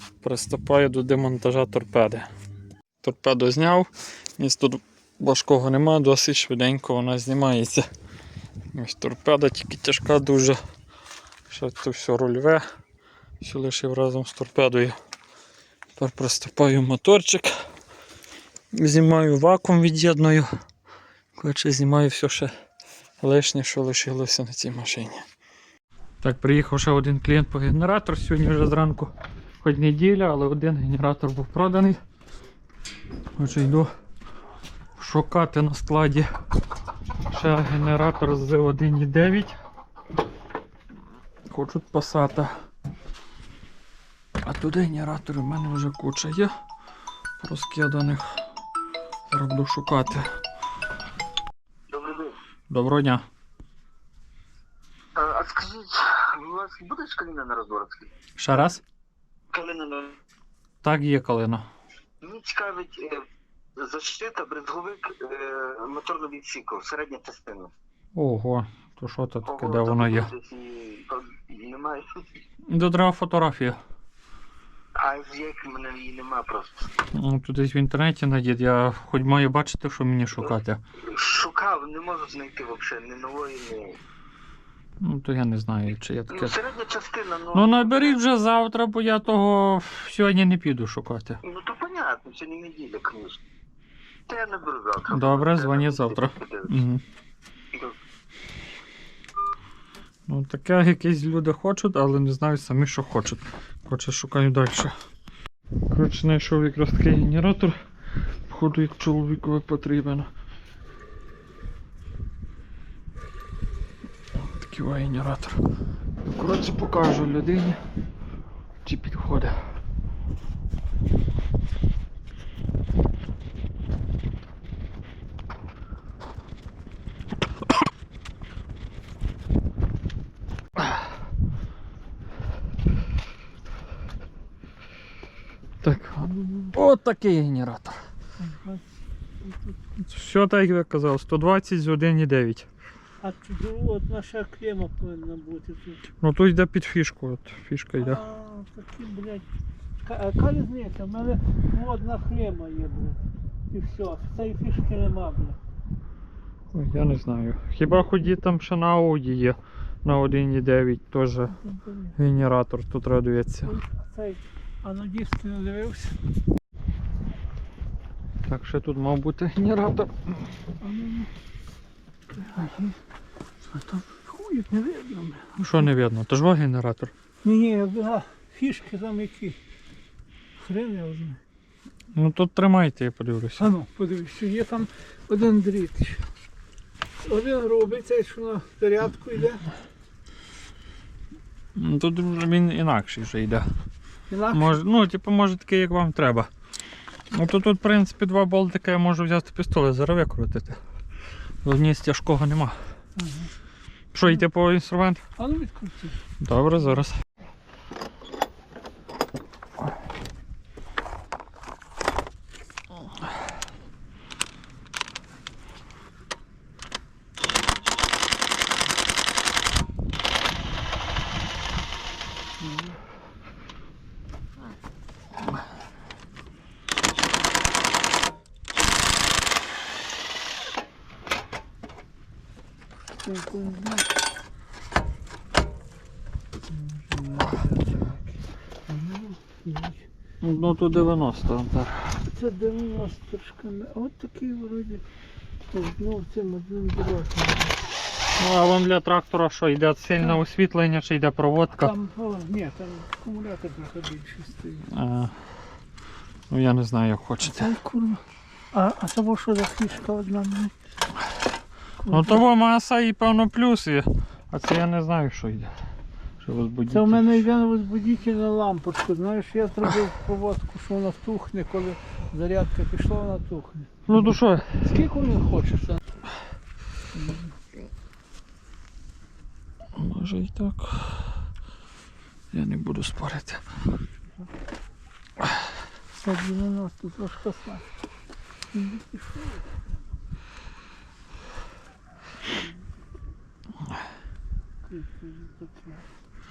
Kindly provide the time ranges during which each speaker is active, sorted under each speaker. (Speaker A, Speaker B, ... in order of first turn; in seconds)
Speaker A: 0.2-2.3, 3.0-7.9, 8.8-10.6, 11.5-12.6, 13.4-15.0, 16.0-17.5, 18.7-20.5, 21.4-22.5, 23.2-25.2, 26.2-29.1, 29.6-32.0, 33.4-33.9, 35.0-36.3, 37.3-39.5, 41.5-42.5, 44.4-46.5, 47.4-48.4, 49.3-50.3, 52.7-53.2, 58.4-58.8, 60.8-61.6, 68.2-70.3, 72.7-73.8, 77.1-80.8, 85.0-86.6, 87.5-91.4, 95.1-97.0, 100.3-104.9, 105.9-107.8, 108.5-110.3, 114.6-115.6, 116.2-117.8, 118.8-119.6, 135.8-138.0, 140.0-142.7, 146.2-148.2, 156.7-161.6, 162.2-163.8, 168.5-170.4, 175.6-177.1, 182.2-183.7, 191.8-193.7, 194.5-196.5, 197.3-200.8, 201.6-202.8, 204.1-205.2, 206.4-207.2, 240.4-242.2, 248.4-251.9, 254.9-255.3, 256.5-257.7, 262.1-265.7, 266.4-267.4, 274.1-274.7, 280.0-281.2, 282.5-283.6
Speaker B: 51.9-52.4, 55.1-58.1, 59.5-60.2, 62.2-63.2, 63.8-67.7, 69.5-72.4, 75.0-76.9, 81.0-84.0, 86.3-88.2, 91.4-93.4, 94.3-96.8, 97.7-98.0
Speaker C: 138.4-138.9, 143.2-146.0, 148.0-149.5, 150.0-155.6, 161.7-162.1, 163.7-166.2, 170.8-171.3, 172.3-173.0, 173.7-175.9, 177.4-179.6, 180.6-181.4, 183.6-186.2, 187.2-189.7, 194.3-194.8, 203.2-203.5, 205.4-206.2, 222.6-223.0, 233.2-234.1, 236.9-238.2, 238.9-240.0, 242.2-245.0, 245.7-247.8, 251.8-254.9, 257.4-258.2, 258.7-260.7, 262.1-262.4, 266.9-274.3, 274.8-276.0, 277.1-277.5, 286.2-287.9, 288.7-289.8, 294.8-296.1